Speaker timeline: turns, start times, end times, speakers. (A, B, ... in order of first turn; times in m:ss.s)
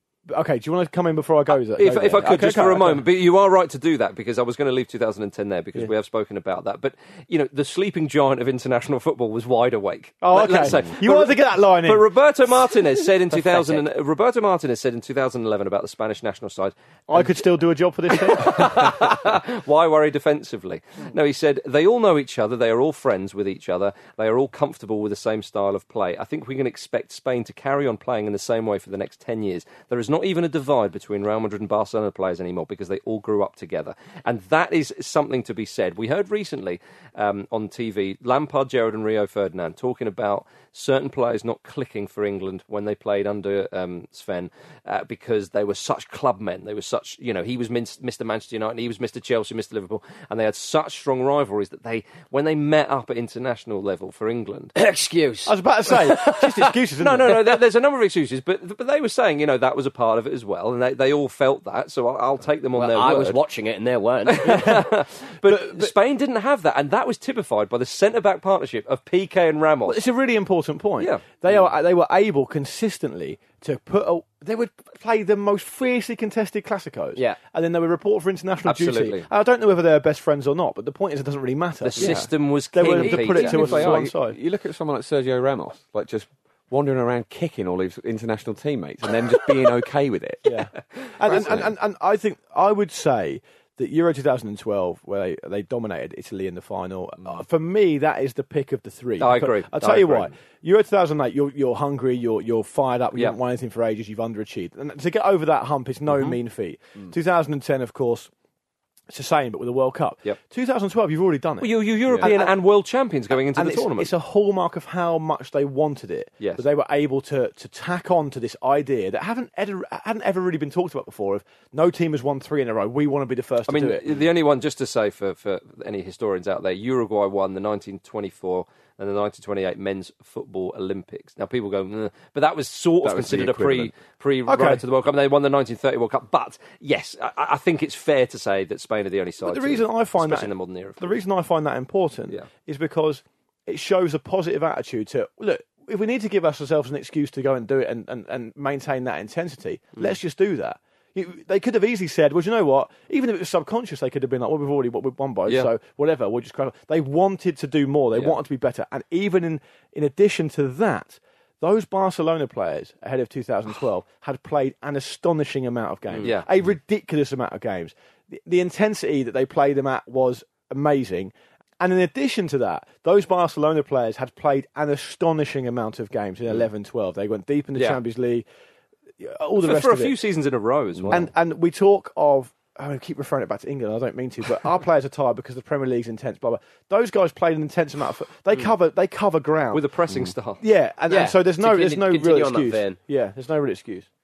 0:00.3-0:03.0 A
0:01.8-0:17.5 B
0:10.2-0:12.1 A
0:17.1-0:19.1 A
0:18.1-0:54.7 B
0:54.8-0:56.6 C
0:55.4-0:57.5 A
0:57.0-1:03.4 B
1:02.8-1:04.6 C
1:04.3-1:10.0 B
1:04.5-1:04.9 A
1:05.4-1:05.9 A
1:09.8-1:22.1 A
1:18.6-1:19.3 B
1:21.8-1:24.0 B
1:22.0-1:22.3 D
1:22.7-1:24.4 A
1:22.9-1:30.6 D
1:30.4-1:48.3 A
1:31.2-1:31.7 D
1:39.2-1:40.3 B
1:46.1-1:46.4 B
1:49.1-1:52.6 A
1:51.6-1:54.1 B
1:53.3-2:04.0 A
1:56.4-1:56.6 B
2:03.7-2:21.2 B
2:13.0-2:13.9 D
2:14.5-2:14.8 A
2:19.4-2:58.4 A
2:38.1-2:38.4 B
2:46.2-2:46.5 B
2:57.7-2:58.0 B
2:59.2-3:00.2 A
2:59.6-3:01.3 B
3:01.1-3:09.9 A
3:09.7-3:10.6 B
3:10.6-3:14.1 A
3:11.1-3:13.0 C